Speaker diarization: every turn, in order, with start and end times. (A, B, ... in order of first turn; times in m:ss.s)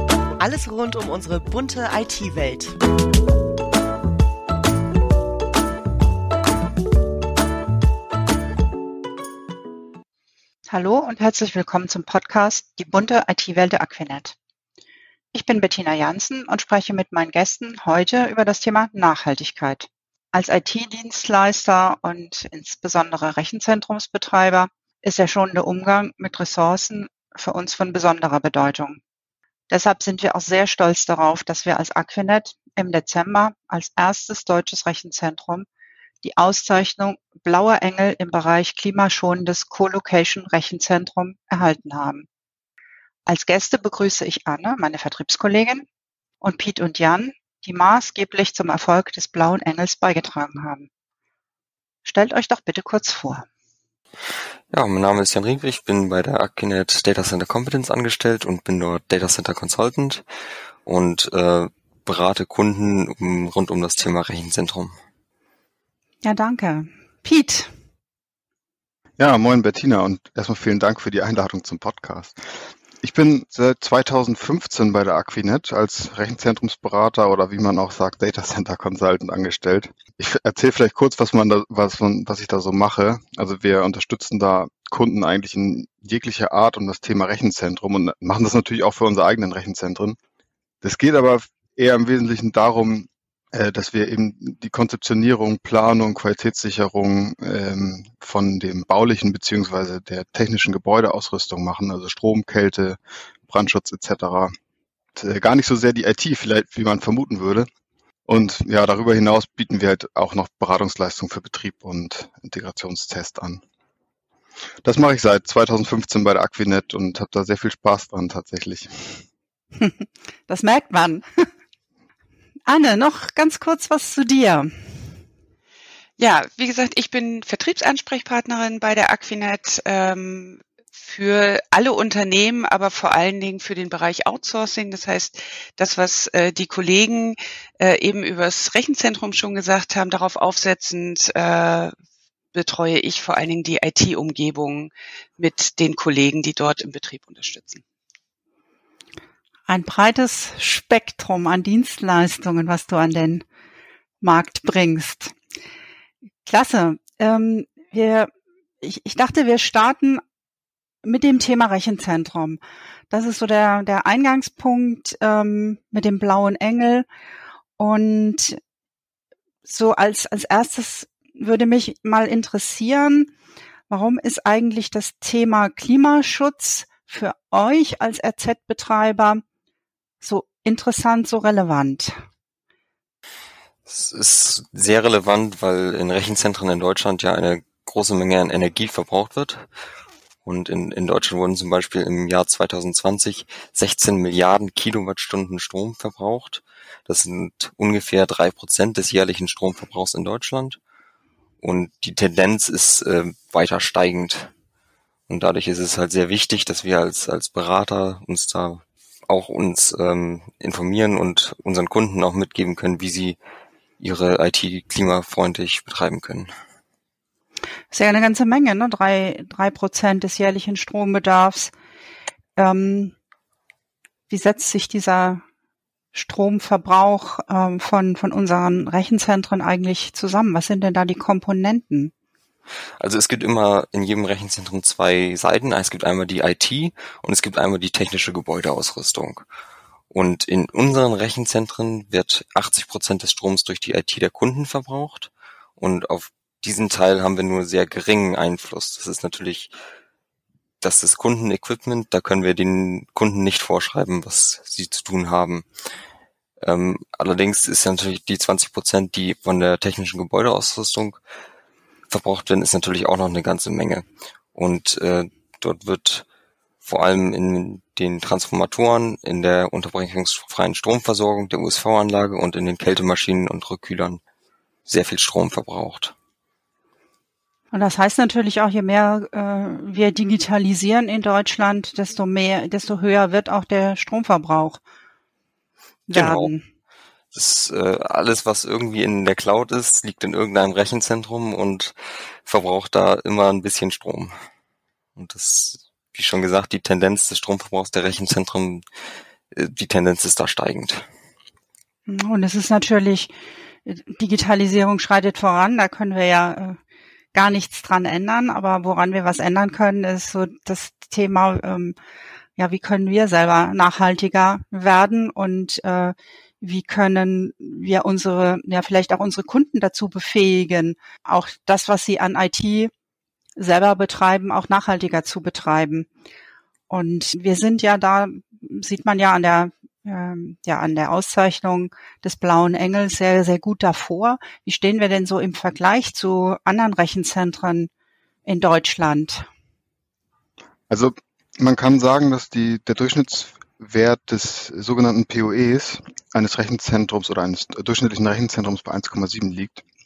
0:00.4-0:02.7 A
0:10.7-0:14.3 B
0:15.3-0:29.0 B
0:29.7-0:35.6 B
0:36.2-0:42.3 B
0:43.2-0:45.8 B
0:46.4-0:50.9 B
0:52.0-0:53.4 B
0:54.7-1:00.2 C
1:00.8-1:04.9 C
1:06.2-1:07.7 B
1:09.2-1:12.4 D
1:13.0-1:30.2 D
1:30.8-1:44.5 D
1:45.1-1:47.7 D
1:48.2-1:53.6 D
1:54.8-1:59.2 D
1:59.8-2:01.4 B
2:02.7-2:04.7 B
2:06.2-2:21.9 E
2:22.5-2:27.8 E
2:29.7-2:33.4 B
2:34.2-2:35.3 B
2:36.4-2:38.3 B
2:38.8-2:40.2 B
2:41.0-2:47.0 B
2:47.8-2:48.6 B
2:49.6-2:53.3 B
2:53.9-2:59.4 B
3:00.2-3:02.2 B
3:03.9-3:09.6 C
3:10.4-3:20.8 C
3:21.6-3:24.5 C
3:25.3-3:33.4 C
3:34.0-3:36.5 C
3:37.9-3:41.7 B
3:42.6-3:43.1 B
3:44.3-3:45.4 B
3:46.1-3:52.1 B
3:53.0-3:59.4 C
4:00.1-4:09.7 C
4:10.8-4:15.6 C
4:16.6-4:21.2 C
4:22.1-4:26.2 C
4:26.8-4:34.2 C
4:34.9-4:36.1 C
4:37.7-4:44.8 B
4:46.1-4:46.6 B
4:46.1-4:46.5 C
4:47.3-4:51.9 C
4:52.4-4:54.3 C
4:55.2-4:58.8 C
4:59.5-5:01.0 C
5:02.1-5:03.3 B
5:03.8-5:06.8 B
5:07.3-5:12.0 B
5:12.6-5:22.9 B
5:23.6-5:26.1 B
5:26.9-5:37.9 B
5:38.4-5:39.5 B
5:40.9-5:49.8 D